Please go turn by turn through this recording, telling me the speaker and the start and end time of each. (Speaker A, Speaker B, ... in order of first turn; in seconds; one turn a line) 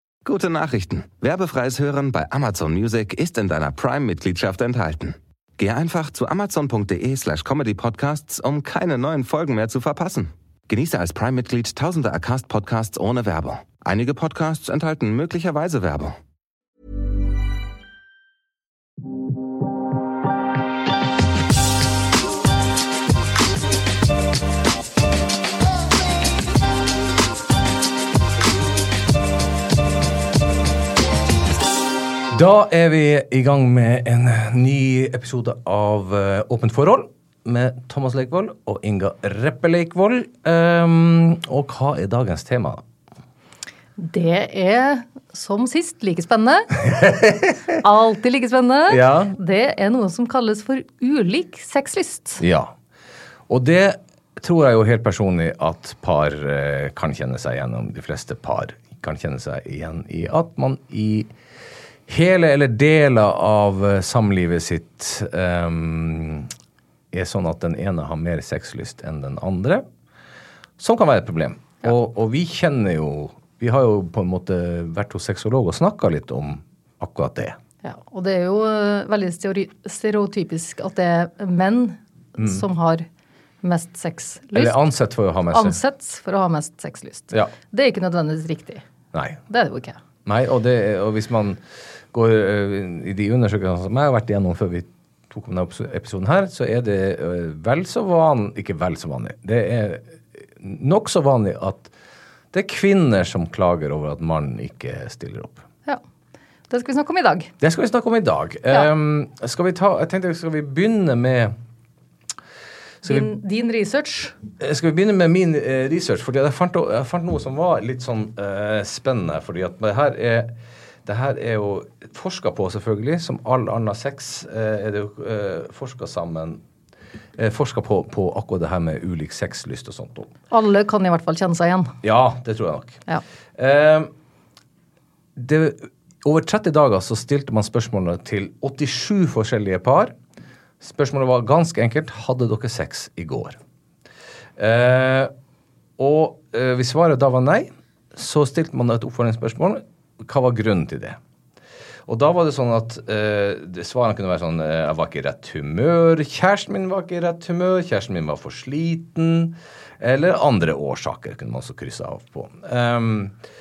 Speaker A: 0.2-16.2
Speaker B: 32.3-42.8
Speaker C: 44.0-47.0
Speaker B: 46.9-47.8
Speaker C: 47.8-52.4
Speaker B: 48.9-49.3
Speaker B: 52.4-52.7
Speaker B: 53.5-61.3
Speaker B: 62.1-66.5
Speaker B: 67.1-69.8
Speaker B: 70.8-77.6
Speaker C: 77.8-83.1
Speaker B: 82.4-82.6
Speaker C: 83.6-84.8
Speaker B: 84.5-85.8
Speaker C: 85.5-88.8
Speaker B: 89.1-89.4
Speaker C: 89.5-90.0
Speaker B: 90.2-91.6
Speaker B: 92.1-101.9
Speaker B: 102.5-105.6
Speaker C: 106.7-107.5
Speaker B: 107.6-111.5
Speaker C: 113.0-114.4
Speaker B: 114.6-126.6
Speaker B: 127.3-130.3
Speaker C: 130.5-132.0
Speaker B: 132.0-133.0
Speaker B: 133.6-134.1
Speaker B: 135.3-140.2
Speaker B: 140.8-143.6
Speaker B: 144.6-145.3
Speaker B: 146.0-151.2
Speaker B: 152.1-163.3